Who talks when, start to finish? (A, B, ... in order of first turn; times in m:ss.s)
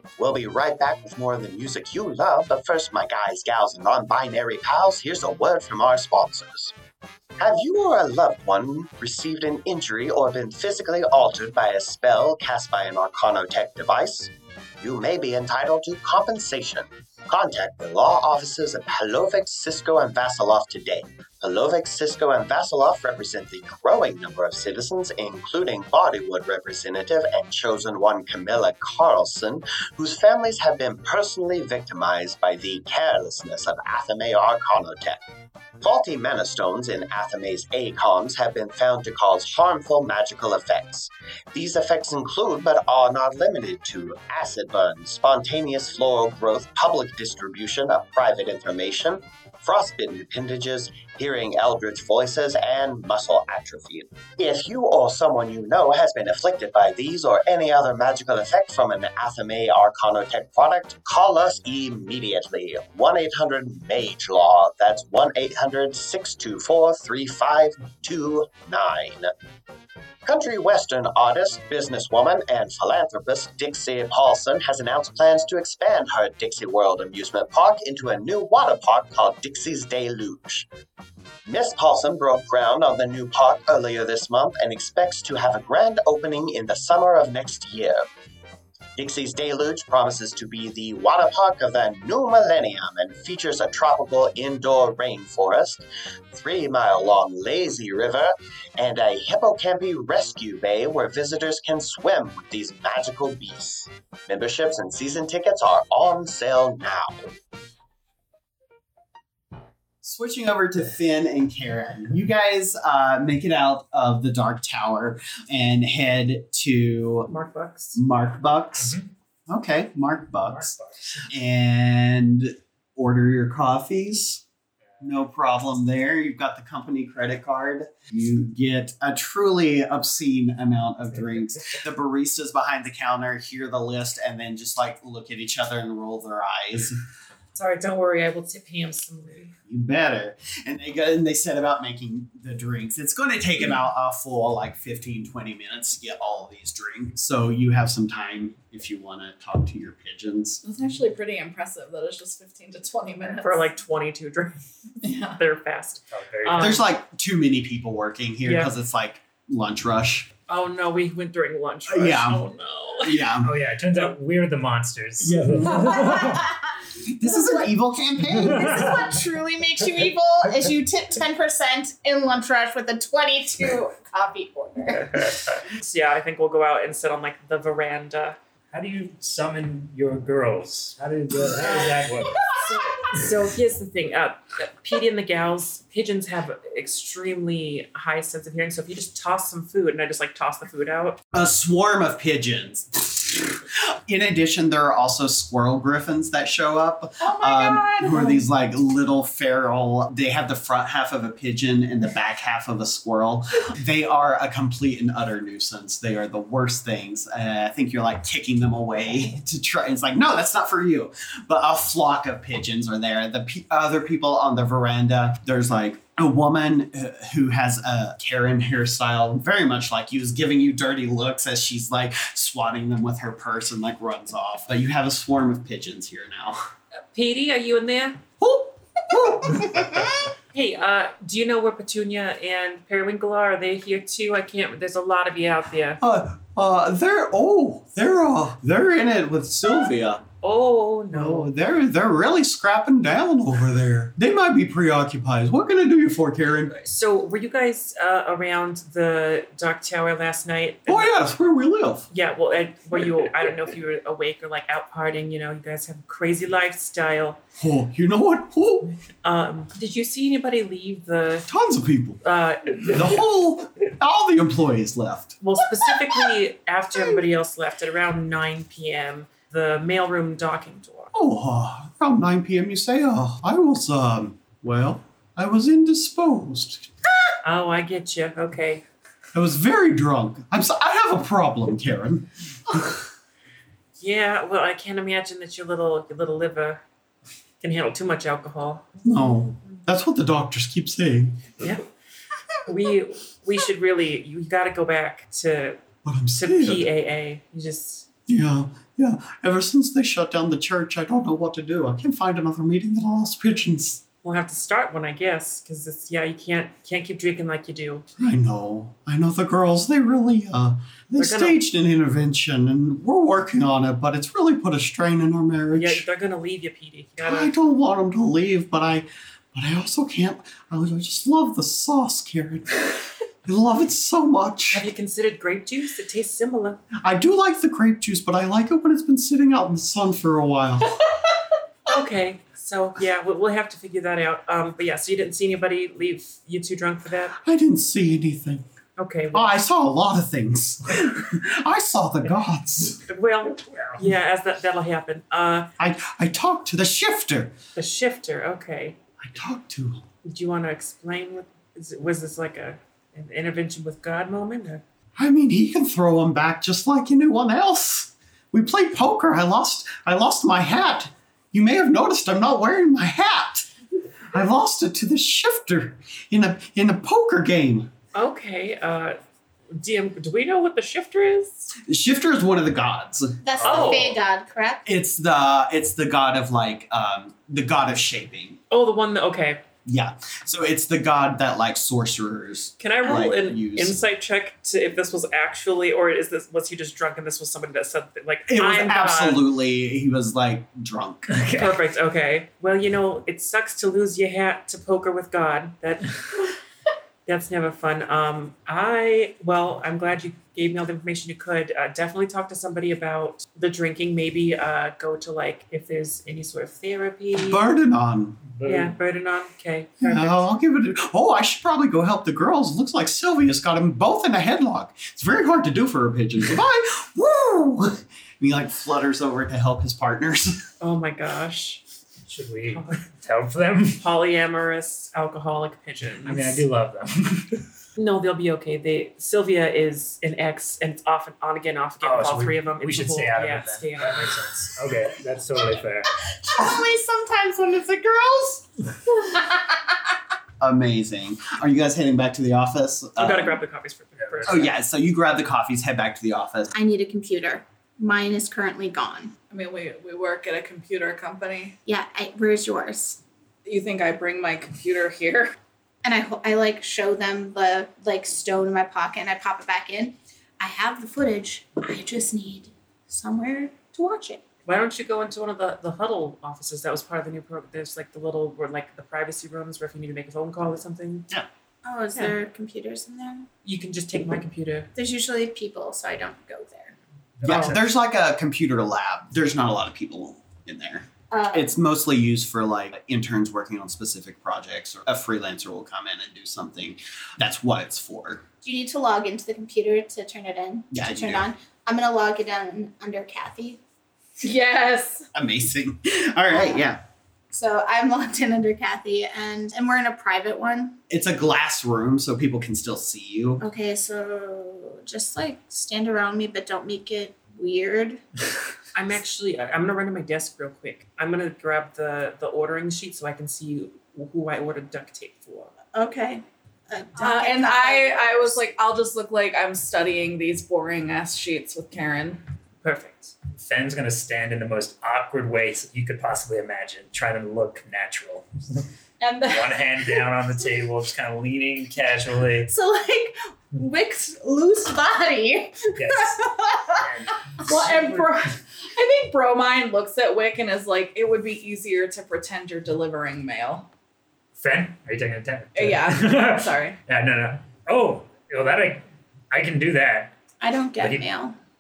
0:00.2-0:06.7 A
0:07.4-0:35.2 A
0:35.8-1:09.3 A
1:10.2-1:20.7 A
1:21.4-1:28.1 A
1:29.0-1:47.3 A
1:50.0-1:57.3 B
1:57.3-1:58.0 C
1:57.9-2:00.8 B
1:58.8-1:59.1 D
2:00.4-2:01.3 D
2:01.3-2:04.4 B
2:05.0-2:17.0 B
2:17.5-2:19.6 C
2:19.7-2:30.6 B
2:30.6-2:33.7 E
2:33.4-2:34.6 C
2:35.0-2:35.4 E
2:35.4-2:36.8 C
2:36.1-2:36.8 D
2:36.6-2:40.3 B
2:38.4-2:38.7 C
2:40.5-2:43.3 C
2:41.9-2:42.4 B
2:43.0-2:43.5 B
2:43.4-2:46.5 D
2:45.2-2:46.1 B
2:45.7-2:46.3 F
2:46.9-2:49.0 B
2:47.3-2:47.7 F
2:48.4-2:49.0 D
2:48.5-2:55.2 F
2:54.9-2:58.4 C
2:58.7-3:02.5 D
3:02.5-3:11.2 C
3:11.3-3:46.6 B
3:17.2-3:18.4 E
3:47.1-3:48.2 C
3:48.4-3:50.2 B
3:50.5-3:56.0 C
3:56.0-4:00.3 B
4:00.4-4:01.5 C
4:01.1-4:06.8 B
4:06.7-4:11.1 C
4:10.9-4:12.1 B
4:12.1-4:17.4 C
4:17.6-4:18.9 B
4:19.2-4:21.5 C
4:21.5-4:22.2 B
4:22.2-4:23.2 C
4:22.8-4:25.4 B
4:25.4-4:31.1 C
4:31.1-4:36.9 B
4:37.4-4:38.8 C
4:39.3-4:43.0 B
4:44.0-4:46.8 C
4:47.6-4:48.9 C
4:49.0-4:51.6 B
4:51.6-4:51.8 C
4:52.6-4:55.8 C
4:56.0-4:56.9 B
4:56.4-4:58.1 C
4:58.3-5:04.0 B
5:04.2-5:08.1 C
5:08.2-5:16.0 B
5:11.2-5:11.6 C
5:15.7-5:17.5 C
5:17.2-5:24.8 B
5:24.7-5:26.8 C
5:27.0-5:31.0 B
5:31.9-5:37.4 C
5:37.4-5:38.6 B
5:39.0-5:39.6 C
5:39.3-5:43.0 B
5:43.1-5:45.7 C
5:43.6-5:44.0 D
5:45.8-5:47.6 B
5:47.8-5:49.0 C
5:49.2-5:50.0 B
5:50.2-5:54.8 C
5:55.2-6:03.7 B
6:04.3-6:07.9 B
6:08.1-6:09.2 C
6:09.7-6:11.7 C
6:11.9-6:14.1 B
6:13.4-6:14.8 F
6:13.6-6:14.2 C
6:14.8-6:18.6 B
6:18.7-6:19.6 C
6:19.9-6:24.0 B
6:22.8-6:29.5 C
6:28.5-6:31.3 B
6:31.3-6:31.8 D
6:31.6-6:36.5 C
6:37.3-6:47.7 C
6:47.4-6:48.4 B
6:48.5-6:49.0 D
6:48.6-6:50.4 C
6:50.0-7:00.6 B
7:00.8-7:01.8 C
7:02.3-7:04.0 D
7:02.7-7:03.1 C
7:04.0-7:06.7 C
7:06.2-7:07.6 D
7:08.0-7:14.4 C
7:12.0-7:16.1 D
7:16.4-7:19.8 F
7:20.6-7:23.6 B
7:23.2-7:24.8 C
7:24.2-7:24.5 D
7:24.4-7:26.7 B
7:26.7-7:29.3 F
7:29.5-7:31.8 E
7:31.9-7:33.2 F
7:33.6-7:35.6 E
7:36.0-7:44.4 F
7:44.6-7:51.3 C
7:51.8-7:53.5 F
7:53.6-7:54.9 C
7:55.0-7:56.9 F
7:57.4-7:57.8 D
7:57.4-8:08.4 B
7:57.5-7:57.8 C
8:01.3-8:01.8 F
8:08.6-8:13.8 F
8:10.9-8:11.5 B
8:14.4-8:15.3 E
8:15.3-8:17.0 B
8:17.5-8:21.0 F
8:21.1-8:23.6 B
8:23.6-8:28.2 F
8:28.9-8:35.7 C
8:35.9-8:38.7 F
8:37.2-8:42.4 E
8:42.8-8:43.3 C
8:43.5-8:48.9 D
8:49.2-8:50.3 E
8:49.4-8:52.7 D
8:52.7-8:57.1 F
8:56.0-8:56.4 D
8:57.0-8:58.3 D
8:57.7-9:03.9 E
9:04.6-9:10.3 D
9:05.8-9:07.0 E
9:10.6-9:11.6 F
9:11.0-9:11.2 D